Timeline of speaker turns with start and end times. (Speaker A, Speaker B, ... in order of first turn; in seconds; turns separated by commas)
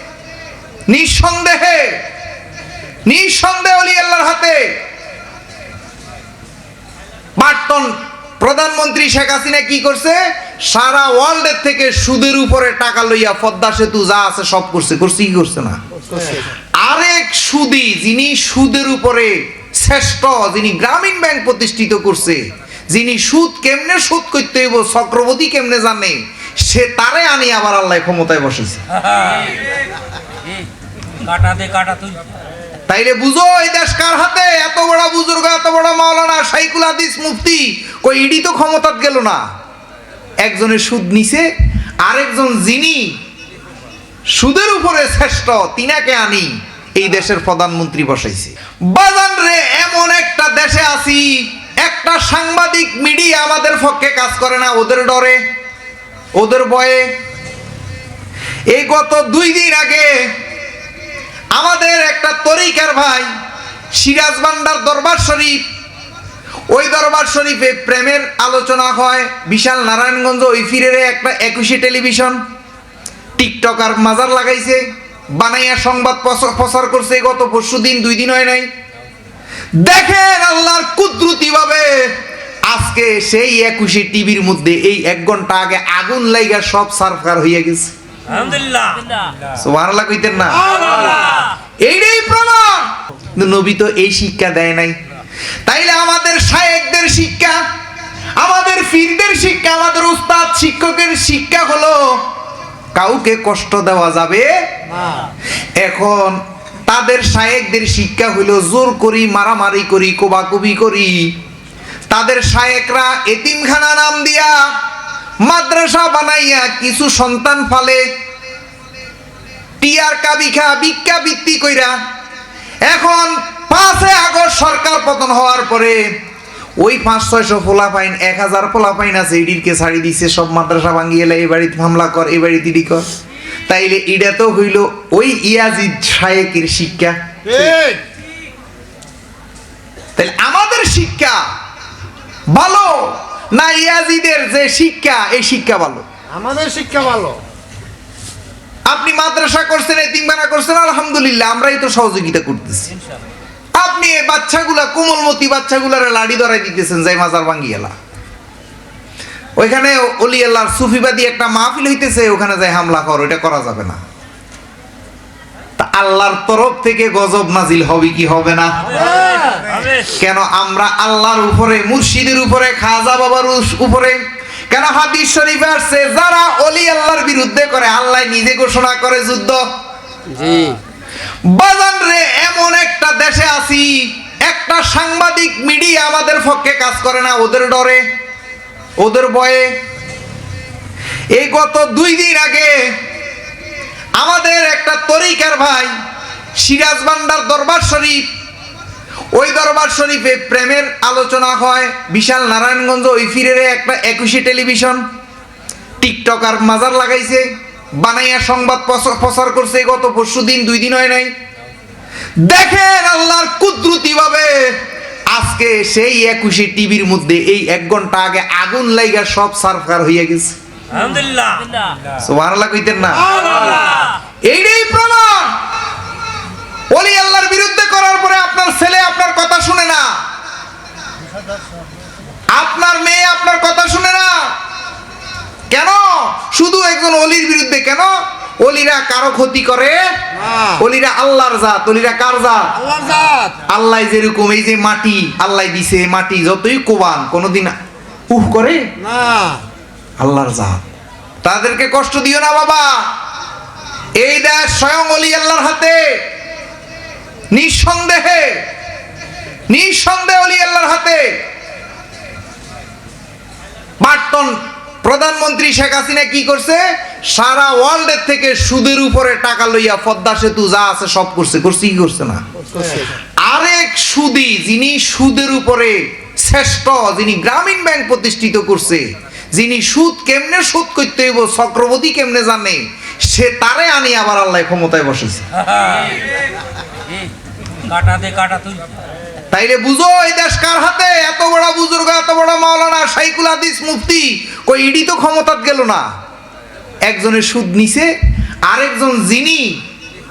Speaker A: 0.9-2.0, Speaker A: 3.0-4.7, Speaker A: 7.4-15.8, Speaker B: 16.1-16.5, Speaker A: 16.8-28.8, Speaker C: 29.0-29.7, Speaker C: 31.1-32.4, Speaker A: 32.9-39.5, Speaker A: 40.4-41.5, Speaker A: 42.0-43.2, Speaker A: 44.3-55.4, Speaker A: 56.4-57.1, Speaker A: 58.7-60.3, Speaker A: 61.5-63.3, Speaker A: 63.9-65.6, Speaker A: 66.7-72.4, Speaker A: 73.4-78.7, Speaker A: 79.7-82.1, Speaker A: 82.7-87.9, Speaker C: 88.3-89.4, Speaker A: 89.5-90.7, Speaker C: 90.6-91.5, Speaker B: 90.7-91.4, Speaker A: 91.8-95.0, Speaker A: 95.7-97.6, Speaker A: 98.4-102.3, Speaker A: 102.9-104.5, Speaker B: 104.9-105.3, Speaker A: 105.8-111.3, Speaker A: 112.1-114.7, Speaker A: 115.4-118.1, Speaker A: 119.8-122.0, Speaker A: 122.8-126.1, Speaker A: 126.8-133.1, Speaker A: 133.7-137.7, Speaker B: 137.4-138.0, Speaker A: 140.2-141.4, Speaker A: 142.5-146.0, Speaker B: 146.3-147.4, Speaker A: 148.9-152.9, Speaker A: 153.8-157.9, Speaker A: 159.6-164.0, Speaker A: 165.8-169.1, Speaker C: 168.8-170.1, Speaker B: 169.1-169.7, Speaker A: 170.1-179.7, Speaker B: 180.3-180.8, Speaker A: 181.4-188.0, Speaker A: 189.0-189.7, Speaker A: 191.3-192.9, Speaker A: 194.2-195.9, Speaker A: 196.6-198.3, Speaker A: 199.3-205.1, Speaker A: 206.0-211.3, Speaker A: 212.4-220.6, Speaker C: 220.9-222.0, Speaker A: 222.2-223.5, Speaker C: 223.3-224.1, Speaker B: 223.4-223.9, Speaker A: 224.4-225.6, Speaker A: 226.9-230.2, Speaker A: 232.5-234.5, Speaker A: 235.7-240.1, Speaker B: 240.3-240.8, Speaker A: 240.8-242.8, Speaker B: 242.8-243.6, Speaker A: 243.7-247.8, Speaker A: 248.3-248.9, Speaker B: 249.0-249.6, Speaker A: 250.2-250.8, Speaker A: 251.4-253.1, Speaker A: 254.2-256.2, Speaker A: 257.5-258.6, Speaker A: 259.7-261.4, Speaker A: 264.0-272.4, Speaker B: 272.6-273.1, Speaker A: 273.4-285.4, Speaker C: 285.6-286.3, Speaker C: 287.8-289.1, Speaker A: 289.5-296.1, Speaker A: 297.0-298.1, Speaker A: 298.6-299.8